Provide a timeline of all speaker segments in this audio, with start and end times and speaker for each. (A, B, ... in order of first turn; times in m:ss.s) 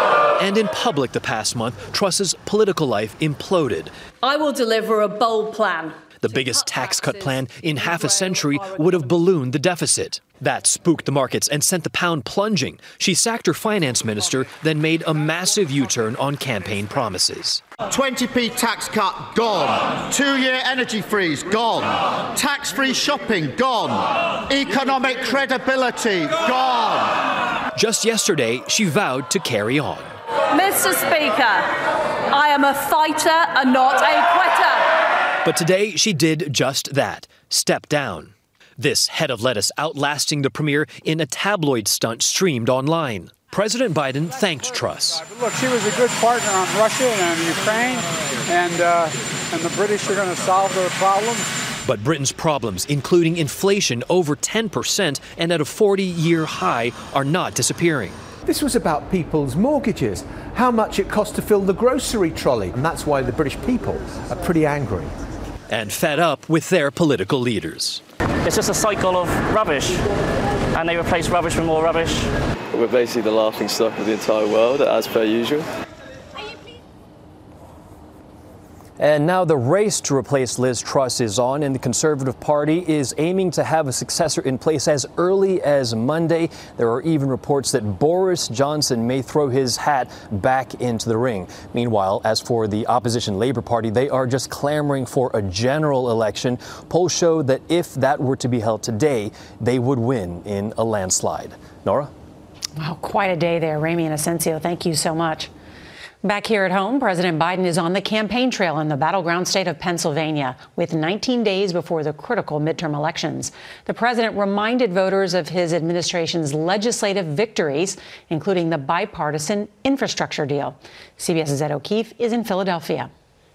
0:00.4-0:03.9 A
0:04.2-0:06.1 B
0:06.2-0:17.6 A
0:17.9-0:27.2 C
0:27.7-0:30.1 A
0:30.5-0:31.7 B
0:32.3-0:34.9 B
0:35.4-0:45.2 A
0:45.2-0:51.5 D
0:51.8-0:58.2 A
0:58.4-1:05.1 E
1:05.7-1:08.0 A
1:08.4-1:10.0 F
1:10.7-1:12.3 F
1:12.7-1:15.7 G
1:19.0-1:42.1 A
1:42.8-1:45.5 H
1:46.2-2:03.1 H